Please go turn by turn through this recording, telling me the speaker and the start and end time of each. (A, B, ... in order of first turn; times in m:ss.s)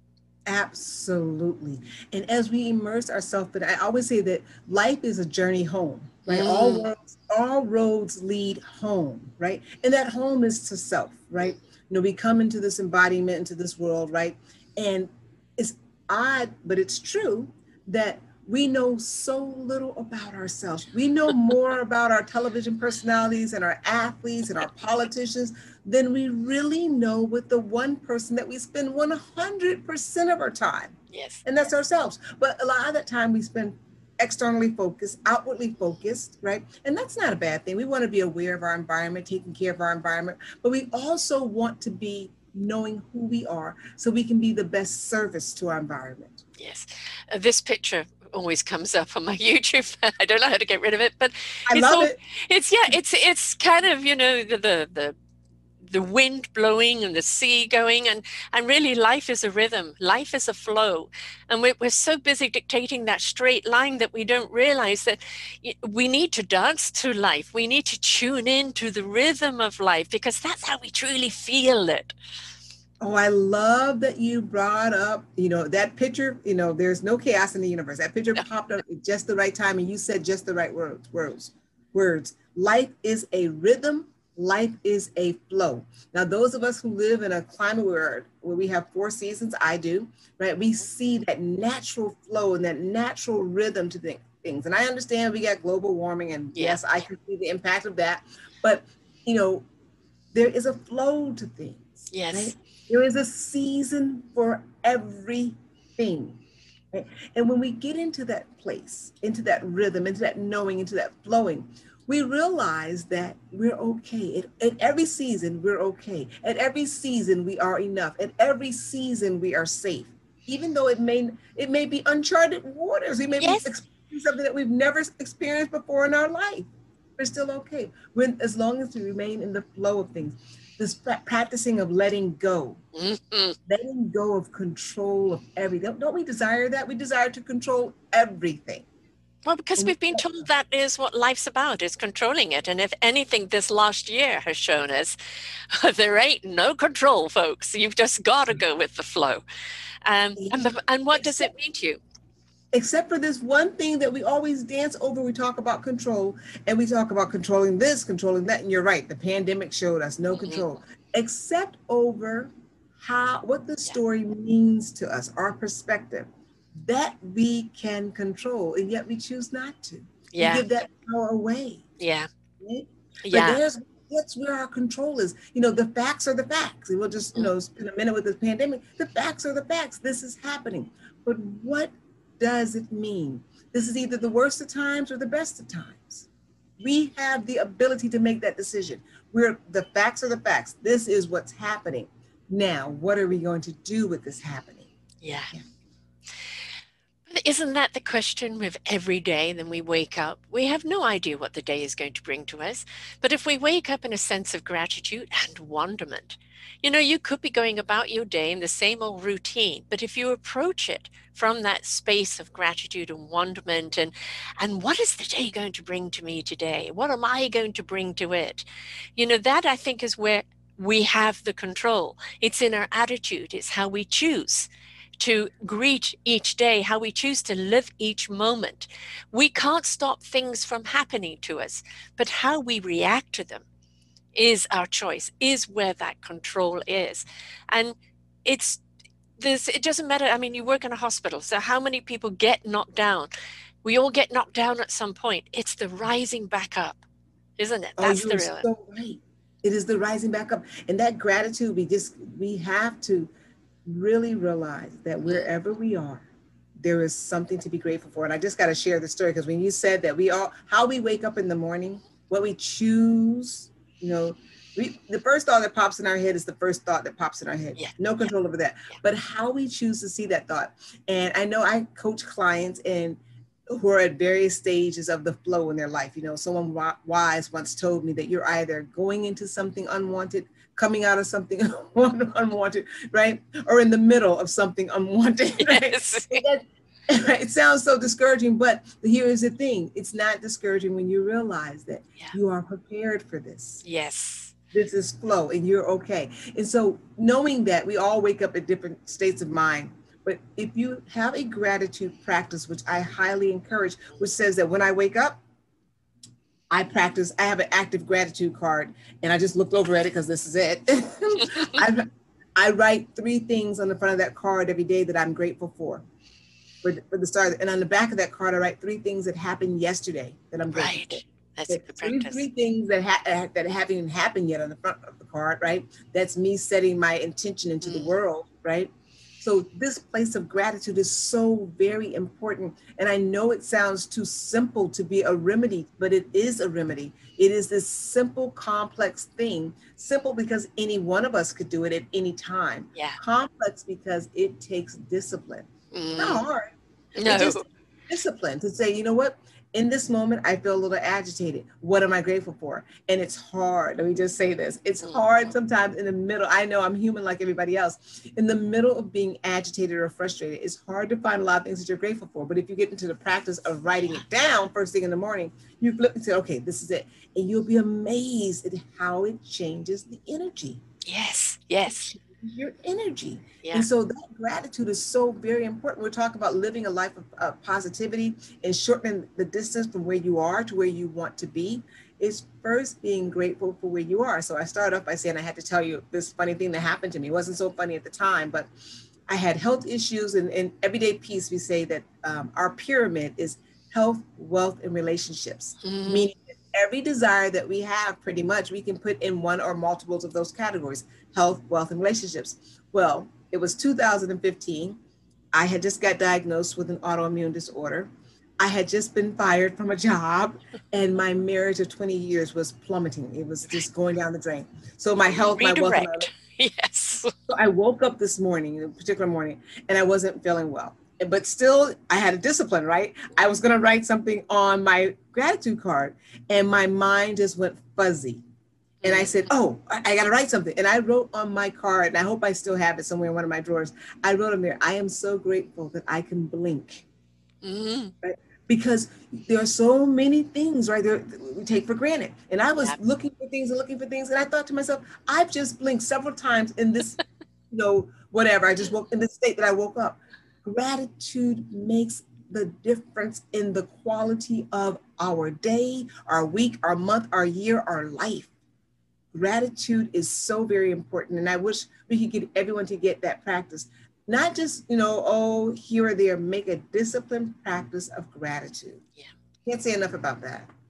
0:00.5-0:46.4 A
0:06.3-0:06.9 B
0:31.1-0:31.4 B
0:46.6-0:55.2 B
0:51.7-0:52.2 A
0:55.9-1:12.1 B
1:13.0-1:39.6 A
1:36.6-1:36.8 B
1:40.3-1:46.4 A
1:42.1-1:42.6 B
1:46.9-2:06.7 A
2:03.4-2:03.7 B
2:07.2-2:12.8 A
2:13.0-2:13.6 B
2:13.7-2:18.9 A
2:19.4-2:25.2 B
2:19.8-2:20.4 A
2:25.7-2:29.4 B
2:30.0-2:32.0 B
2:30.4-2:31.5 A
2:32.7-2:51.9 A
2:40.4-2:40.7 B
2:50.3-2:50.6 B
2:52.0-2:52.3 B
2:52.6-3:06.3 A
2:53.2-2:53.6 B
3:06.8-3:14.9 A
3:15.2-3:15.6 B
3:17.3-3:38.6 B
3:39.2-3:53.6 B
3:54.4-3:58.8 B
3:59.4-4:03.3 B
4:03.8-4:07.0 B
4:07.6-4:08.7 B
4:08.0-4:13.3 A
4:13.9-4:16.3 A
4:16.8-4:53.8 A
4:45.6-4:46.4 B
4:53.8-4:54.6 B
4:54.7-5:05.4 A
5:06.7-5:16.0 A
5:16.8-6:10.8 A
5:20.7-5:22.5 B
5:27.8-5:28.1 B
5:45.9-5:46.5 B
5:47.2-5:47.6 B
6:11.1-6:12.1 B
6:11.8-6:28.7 A
6:29.3-6:45.0 A
6:35.8-6:36.3 B
6:45.5-6:48.1 A
6:48.6-6:56.3 A
6:55.2-6:57.3 B
6:57.5-7:08.4 A
7:09.0-7:09.4 B
7:09.0-7:17.1 A
7:17.6-7:18.1 B
7:18.2-7:27.2 A
7:27.7-7:38.5 A
7:39.3-7:49.0 A
7:49.6-7:50.7 A